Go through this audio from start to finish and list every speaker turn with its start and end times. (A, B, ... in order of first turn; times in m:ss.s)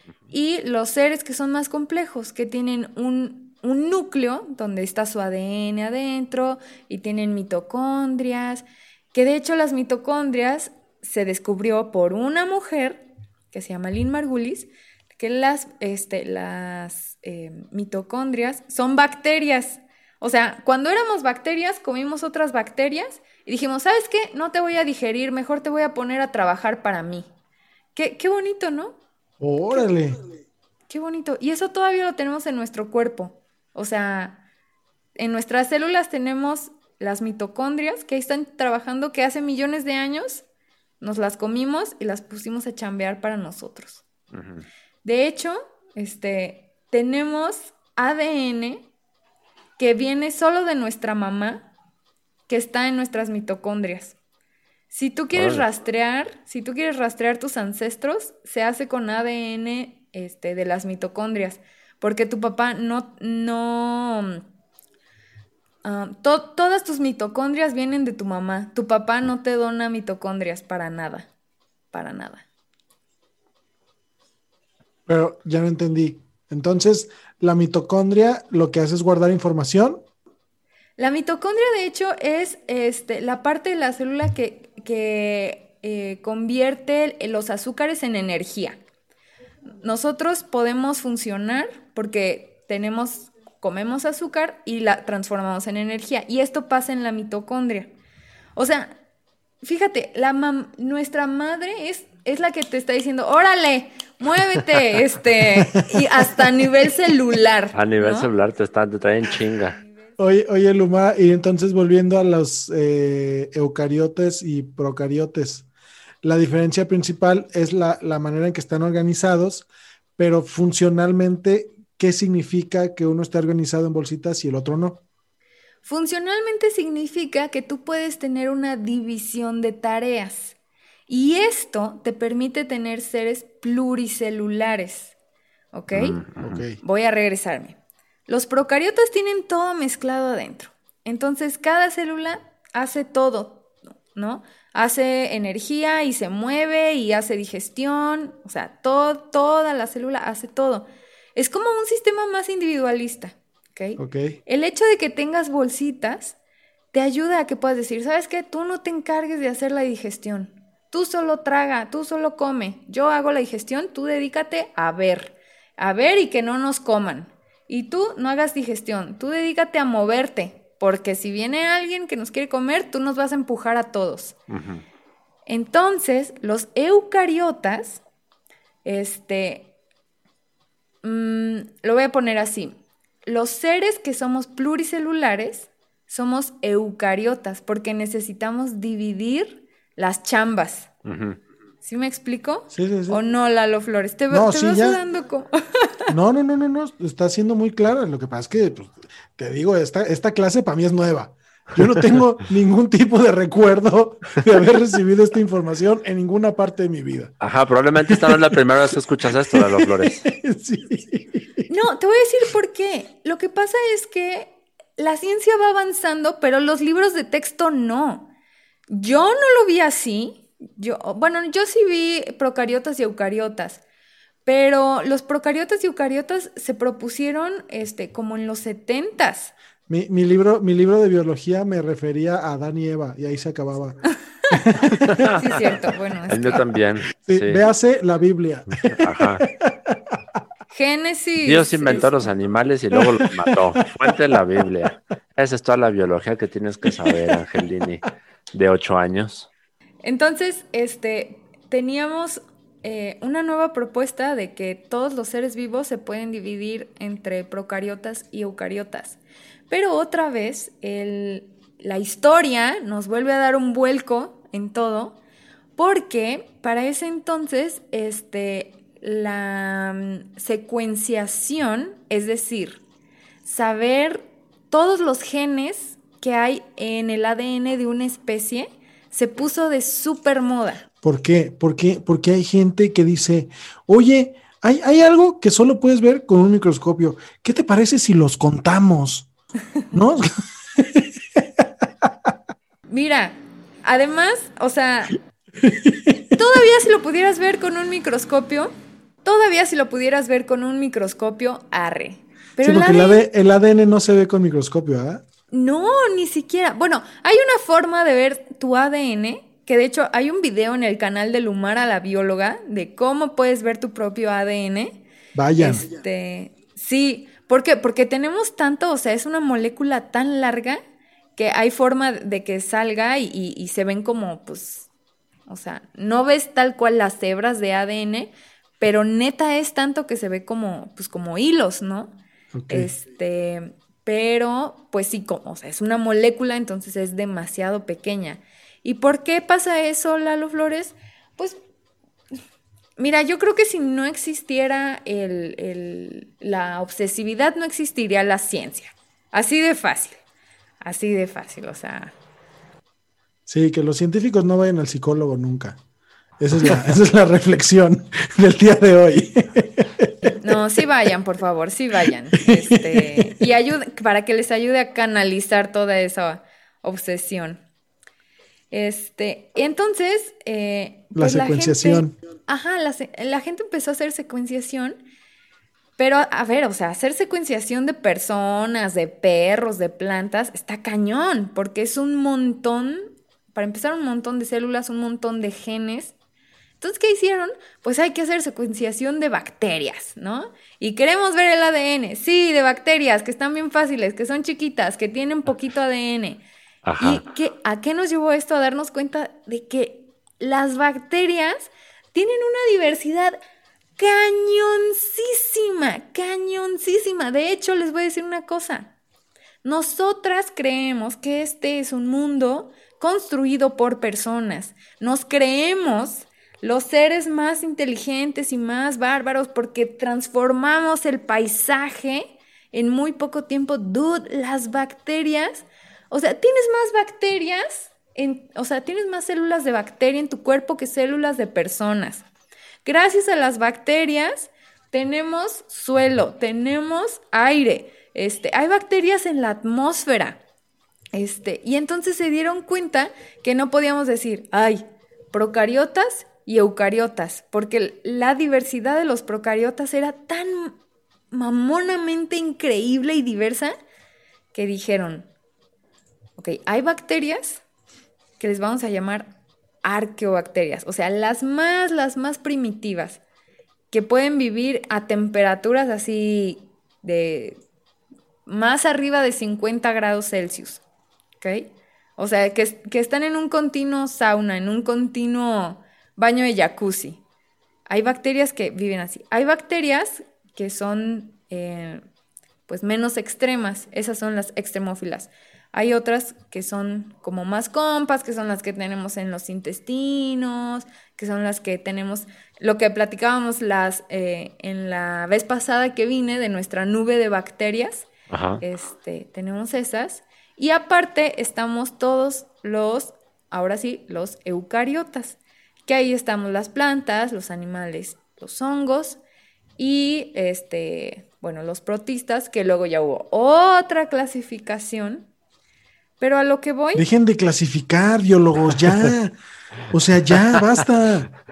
0:00.3-0:27.3 A
0:27.9-0:29.0 A
0:29.4-0:30.2 B
0:30.9-0:34.4 A
0:35.2-0:40.4 A
0:41.0-0:44.0 A
0:44.3-0:44.6 C
0:45.0-0:48.9 A
0:49.8-0:51.7 A
0:52.5-0:54.2 A
0:54.9-1:04.4 A
0:55.3-0:55.6 C
1:05.8-1:11.3 A
1:11.9-1:12.4 A
1:15.1-1:20.0 B
1:21.0-1:28.8 A
1:29.8-1:37.9 A
1:38.6-1:39.0 A
1:39.6-1:48.3 A
1:47.7-1:49.8 C
1:50.2-1:55.7 B
1:56.2-1:59.7 B
2:00.2-2:05.0 B
2:05.8-2:10.5 A
2:11.1-2:15.1 A
2:15.7-2:16.2 A
2:15.9-2:16.6 C
2:16.4-2:16.8 B
2:16.8-2:17.8 A
2:18.3-2:36.4 A
2:34.0-2:34.4 B
2:36.9-2:54.4 A
2:54.5-2:54.8 C
2:55.5-2:58.0 A
2:58.8-2:59.7 A
3:01.0-3:02.7 A
3:03.2-3:10.9 A
3:11.0-3:11.4 C
3:11.8-3:16.1 A
3:12.7-3:13.2 B
3:14.3-3:15.0 B
3:16.1-3:27.3 B
3:27.4-3:30.2 C
3:28.1-3:28.6 B
3:29.4-3:31.6 B
3:31.7-3:38.3 A
3:38.9-3:43.8 A
3:44.4-3:49.5 A
3:49.9-3:54.0 B
3:54.5-3:55.3 B
3:55.0-3:55.4 C
3:55.4-3:56.6 A
3:56.3-3:57.6 C
3:57.3-4:00.2 B
3:58.9-3:59.4 C
4:00.7-4:02.3 A
4:01.4-4:09.5 C
4:02.9-4:03.8 B
4:07.0-4:07.3 B
4:10.0-4:25.2 A
4:25.8-4:32.8 A
4:33.4-4:40.8 A
4:41.0-4:49.3 B
4:49.9-4:52.3 B
4:52.9-4:55.2 A
4:55.6-4:56.1 B
4:56.2-4:58.7 A
4:59.2-5:03.2 A
5:02.6-5:05.2 B
5:05.5-5:15.0 A
5:15.3-5:15.9 B
5:15.6-5:20.8 A
5:21.4-5:24.9 A
5:25.5-5:32.1 A
5:32.5-5:32.9 B
5:32.7-5:41.6 A
5:43.0-5:50.2 A
5:50.8-5:52.1 A
5:53.5-5:55.8 B
5:56.4-6:00.3 B
6:00.4-6:07.6 A
6:02.0-6:03.4 B
6:08.7-6:15.0 A
6:11.1-6:12.1 B
6:16.0-6:26.1 A
6:26.8-6:36.4 A
6:36.8-6:37.2 C
6:37.0-6:43.4 A
6:44.0-6:48.9 A
6:49.6-7:12.2 A
7:12.8-7:20.4 A
7:21.1-7:30.8 A
7:31.3-7:33.7 A
7:34.5-7:35.3 A
7:36.4-7:37.6 A
7:38.4-7:39.3 A
7:39.8-7:43.2 A
7:43.9-7:47.6 A
7:48.4-7:50.8 A
7:51.4-7:57.2 A
7:57.9-8:02.0 A
8:02.7-8:18.1 A
8:18.3-8:18.6 C
8:18.6-8:29.2 A
8:29.8-8:35.3 A
8:36.2-8:37.0 A
8:36.9-8:39.4 B
8:39.9-8:41.3 B